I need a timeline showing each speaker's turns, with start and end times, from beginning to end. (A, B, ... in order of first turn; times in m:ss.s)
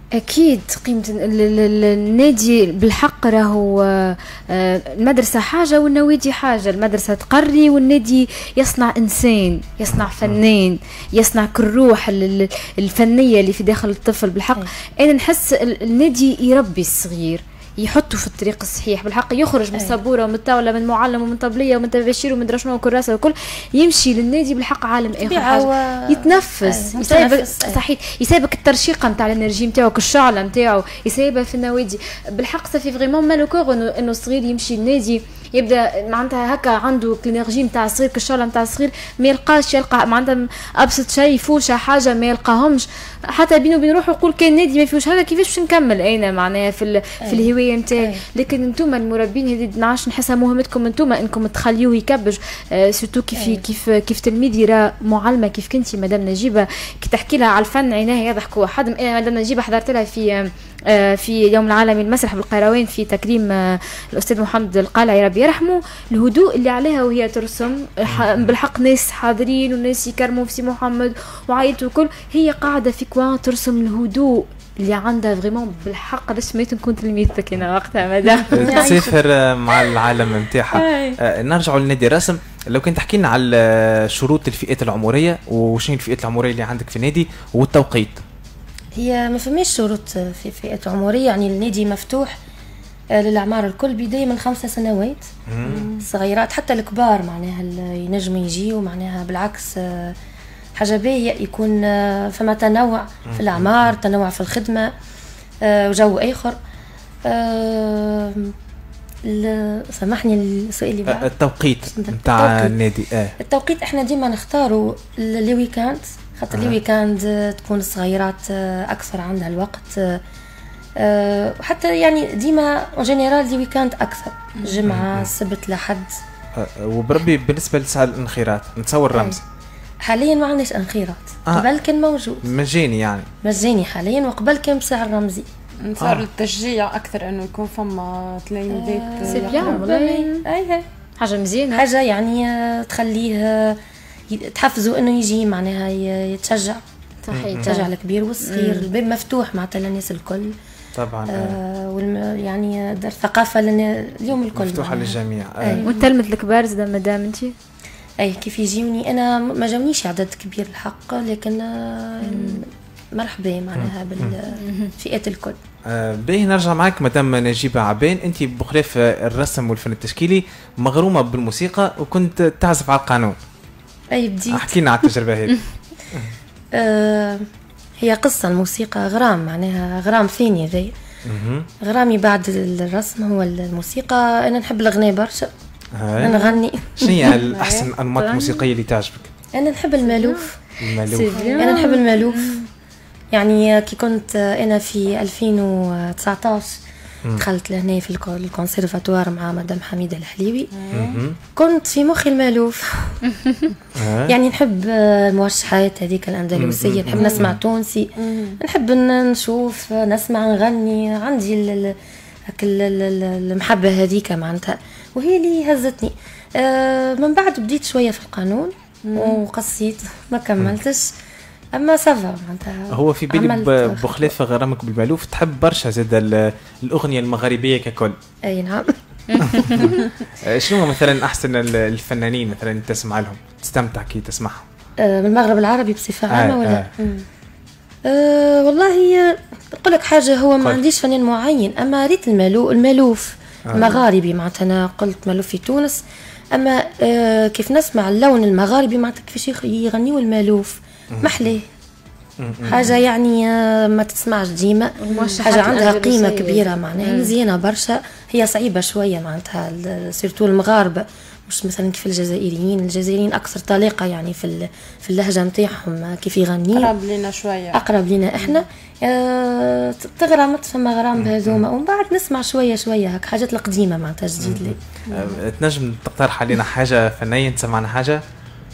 0:00.2-1:19.1 A
0:09.9-0:10.4 B
0:25.1-0:27.8 C
0:47.2-0:48.2 C
0:53.4-0:53.6 C
1:08.1-1:08.5 B
1:18.4-1:19.1 C
1:18.5-1:28.2 B
1:20.8-1:21.1 C
1:20.8-1:21.1 A
1:29.0-1:32.4 C
1:33.1-1:35.3 C
1:35.5-1:35.9 B
1:35.6-1:36.0 D
1:35.9-1:40.2 C
1:40.8-1:44.9 C
1:43.3-1:43.9 B
1:45.6-1:46.6 C
1:47.2-1:48.5 C
1:49.3-1:51.3 C
1:51.1-1:53.4 B
1:51.9-1:52.8 C
1:53.4-2:00.2 C
1:56.5-1:56.8 B
2:01.0-2:06.2 C
2:04.9-2:05.3 B
2:06.6-2:09.4 B
2:09.1-2:09.4 C
2:10.0-2:12.4 C
2:12.4-2:13.3 B
2:13.4-2:15.5 C
2:15.8-2:19.9 D
2:16.0-2:16.3 B
2:18.7-2:20.9 C
2:19.2-2:20.5 A
2:21.2-2:21.8 A
2:21.7-2:23.8 C
2:24.3-2:26.8 C
2:27.3-2:28.9 A
2:27.3-2:27.7 B
2:27.6-2:30.5 C
2:31.0-2:31.6 B
2:31.3-2:35.9 C
2:34.5-2:35.8 B
2:35.8-2:36.1 D
2:35.8-2:37.5 A
2:38.2-2:45.6 C
2:42.2-2:42.6 A
2:43.8-2:44.4 B
2:44.6-2:44.9 A
2:45.9-2:53.4 B
2:54.1-2:54.8 C
2:54.5-2:55.6 B
2:56.7-2:57.5 C
2:58.0-3:00.9 C
3:01.3-3:01.7 B
3:01.8-3:05.5 C
3:06.0-3:06.4 B
3:06.2-3:07.4 C
3:06.2-3:07.9 D
3:07.0-3:09.3 B
3:08.2-3:08.6 A
3:09.5-3:10.6 C
3:10.1-3:10.4 A
3:10.8-3:11.4 B
3:11.0-3:12.7 A
3:11.3-3:11.9 D
3:11.6-3:12.6 C
3:13.3-3:16.8 C
3:17.4-3:20.7 C
3:20.7-3:21.2 D
3:20.9-3:21.4 B
3:21.6-3:23.2 C
3:24.0-3:24.4 B
3:24.3-3:41.1 C
3:26.6-3:27.6 B
3:28.2-3:28.6 D
3:39.0-3:39.4 D
3:41.8-3:44.3 C
3:42.9-3:48.2 B
3:48.4-3:49.9 C
3:49.3-3:50.0 A
3:49.4-3:54.7 B
3:55.0-3:57.2 C
3:56.3-3:56.9 B
3:58.0-4:06.0 C
4:03.7-4:04.0 B
4:06.6-4:11.7 C
4:11.1-4:11.4 B
4:12.4-4:13.0 B
4:12.6-4:27.0 C
4:15.0-4:17.3 A
4:15.1-4:15.4 D
4:26.7-4:27.8 D
4:27.7-4:34.8 C
4:31.2-4:31.6 B
4:34.4-4:38.2 B
4:35.1-4:35.4 D